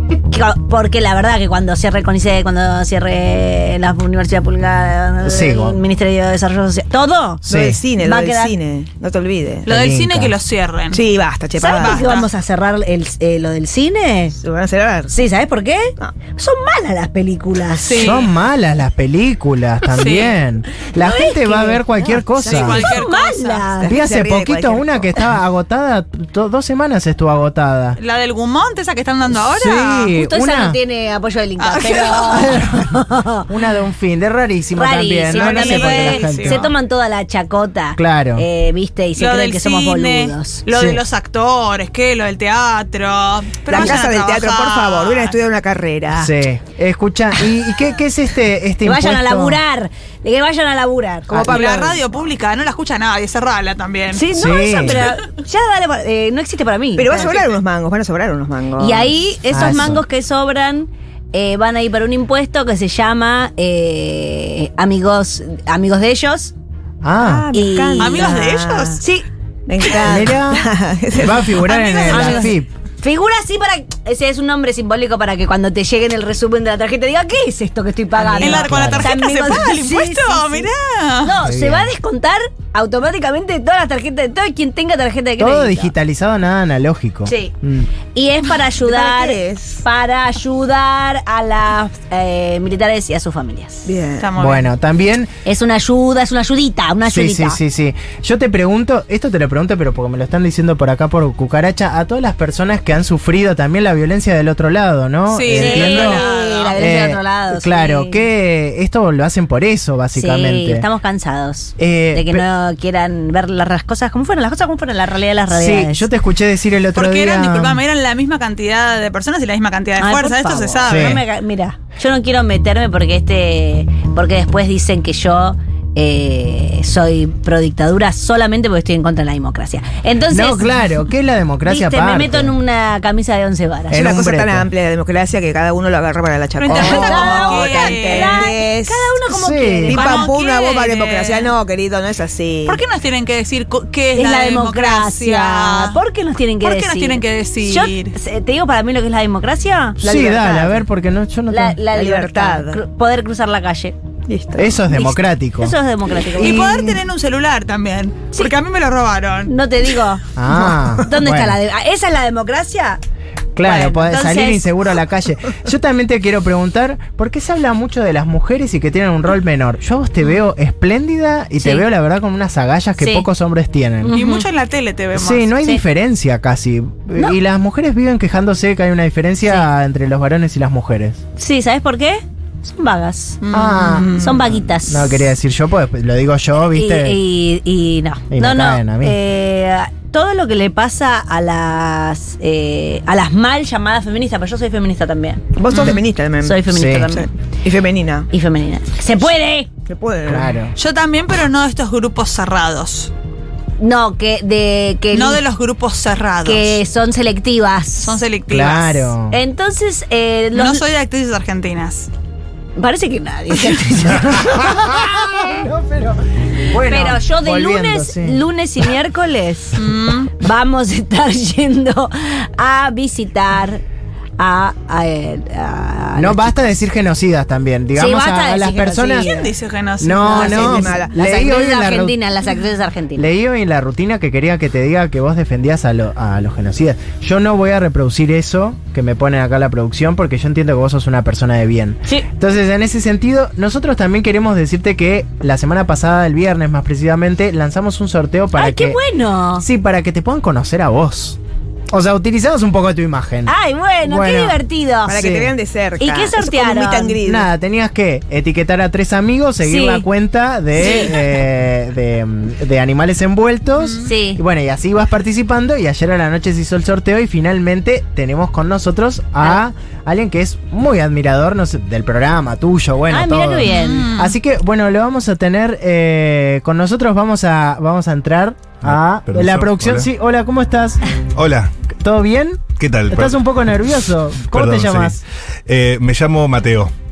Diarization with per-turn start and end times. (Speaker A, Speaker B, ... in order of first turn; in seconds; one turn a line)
Speaker A: 0.3-7.4
Speaker B: 5.2-5.8
Speaker C: 7.5-9.7
Speaker B: 7.5-7.8
Speaker A: 8.0-8.5
Speaker D: 9.7-11.0
Speaker B: 9.7-10.3
Speaker C: 10.9-12.1
Speaker A: 11.6-14.3
Speaker D: 11.7-12.3
Speaker C: 14.4-15.2
Speaker A: 15.1-18.2
Speaker D: 17.8-18.3
Speaker B: 17.9-22.9
Speaker D: 19.8-20.4
Speaker A: 21.0-21.8
Speaker D: 22.4-23.7
Speaker C: 22.4-23.0
Speaker A: 22.6-23.9
Speaker C: 23.8-25.2
Speaker B: 23.9-28.0
Speaker D: 28.0-30.1
Speaker B: 29.4-30.8
Speaker A: 30.1-33.5
Speaker D: 31.6-31.9
Speaker B: 32.2-32.9
Speaker B: 33.5-36.7
Speaker A: 34.8-40.6
Speaker D: 35.3-36.7
Speaker B: 38.0-38.5
Speaker D: 39.2-45.4
Speaker B: 40.7-41.0
Speaker C: 43.7-46.3
Speaker B: 46.1-49.6
Speaker A: 48.8-51.5
Speaker C: 51.3-52.3
Speaker D: 51.5-54.2
Speaker A: 54.1-57.3
Speaker B: 54.3-55.1
Speaker C: 57.0-59.1
Speaker D: 57.1-57.5
Speaker A: 58.8-66.5
Speaker B: 59.5-60.0
Speaker B: 67.0-67.5
Speaker C: 67.2-69.0
Speaker A: 67.5-68.3
Speaker D: 68.0-69.0
Speaker A: 69.0-69.2
Speaker C: 69.7-71.7
Speaker B: 70.0-72.7
Speaker D: 71.6-72.5
Speaker A: 72.1-80.7
Speaker D: 78.2-81.3
Speaker B: 78.3-79.1
Speaker A: 81.2-85.9
Speaker B: 81.4-81.9
Speaker B: 85.4-87.9
Speaker A: 87.2-87.5
Speaker A: 88.1-93.9
Speaker C: 88.8-89.8
Speaker C: 93.8-94.3
Speaker D: 94.2-94.7
Speaker B: 94.4-95.3
Speaker A: 95.4-97.6
Speaker B: 97.0-110.9
Speaker D: 105.3-106.8
Speaker A: 105.5-108.3
Speaker A: 110.1-116.1
Speaker B: 111.8-112.5
Speaker B: 115.5-117.8
Speaker D: 116.9-121.2
Speaker A: 120.0-130.8
Speaker B: 120.9-121.2
Speaker B: 130.3-132.5
Speaker A: 131.6-134.1
Speaker B: 133.9-134.7
Speaker C: 133.9-139.1
Speaker D: 136.6-138.5
Speaker A: 136.6-140.3
Speaker B: 139.2-140.0
Speaker C: 139.8-142.8
Speaker D: 139.9-141.5
Speaker D: 142.7-146.0
Speaker A: 144.1-150.0
Speaker D: 146.6-148.1
Speaker B: 150.0-151.8
Speaker C: 150.0-150.8
Speaker A: 151.5-153.9
Speaker C: 151.9-152.8
Speaker C: 154.3-154.8
Speaker B: 154.6-155.7
Speaker A: 154.9-156.7
Speaker D: 156.3-159.5
Speaker C: 156.4-157.0
Speaker A: 159.5-160.2
Speaker B: 160.3-161.6
Speaker A: 161.0-163.0
Speaker B: 163.5-174.2
Speaker A: 163.6-164.7
Speaker A: 171.6-171.8
Speaker A: 173.0-173.3
Speaker A: 174.0-174.5
Speaker D: 174.1-175.5
Speaker B: 175.1-181.2
Speaker A: 181.4-183.4
Speaker D: 183.4-184.4
Speaker B: 183.5-187.2
Speaker A: 184.1-185.3
Speaker A: 186.6-197.3
Speaker B: 188.3-189.2
Speaker C: 195.6-198.3
Speaker D: 195.7-196.0
Speaker B: 196.7-197.1
Speaker A: 198.3-199.7
Speaker C: 199.8-200.6
Speaker B: 200.3-200.7
Speaker D: 200.7-203.1
Speaker A: 203.8-205.4
Speaker D: 205.1-206.8
Speaker A: 206.4-208.2
Speaker D: 208.0-209.1
Speaker B: 208.5-209.4
Speaker A: 209.3-210.8
Speaker D: 210.5-212.1
Speaker A: 212.8-215.7
Speaker B: 214.1-218.4
Speaker A: 216.8-219.8
Speaker D: 219.7-220.3
Speaker A: 220.4-223.8
Speaker A: 224.4-226.7
Speaker B: 226.2-229.4
Speaker A: 227.9-229.5
Speaker D: 229.2-230.7
Speaker B: 230.0-232.1
Speaker C: 230.3-231.1
Speaker A: 230.3-233.3
Speaker B: 233.1-249.0
Speaker A: 248.5-249.6
Speaker B: 249.6-251.4
Speaker B: 251.9-254.6
Speaker A: 253.4-255.2
Speaker C: 255.1-257.5
Speaker B: 255.1-255.5
Speaker A: 256.0-257.2
Speaker B: 257.2-281.0
Speaker A: 259.6-260.1
Speaker A: 260.8-261.1
Speaker D: 263.8-264.1
Speaker A: 264.0-264.4
Speaker A: 273.1-274.0
Speaker D: 273.6-274.4
Speaker E: 278.8-280.1
Speaker E: 281.3-281.7
Speaker B: 281.9-285.2
Speaker E: 282.8-283.4
Speaker E: 284.4-286.9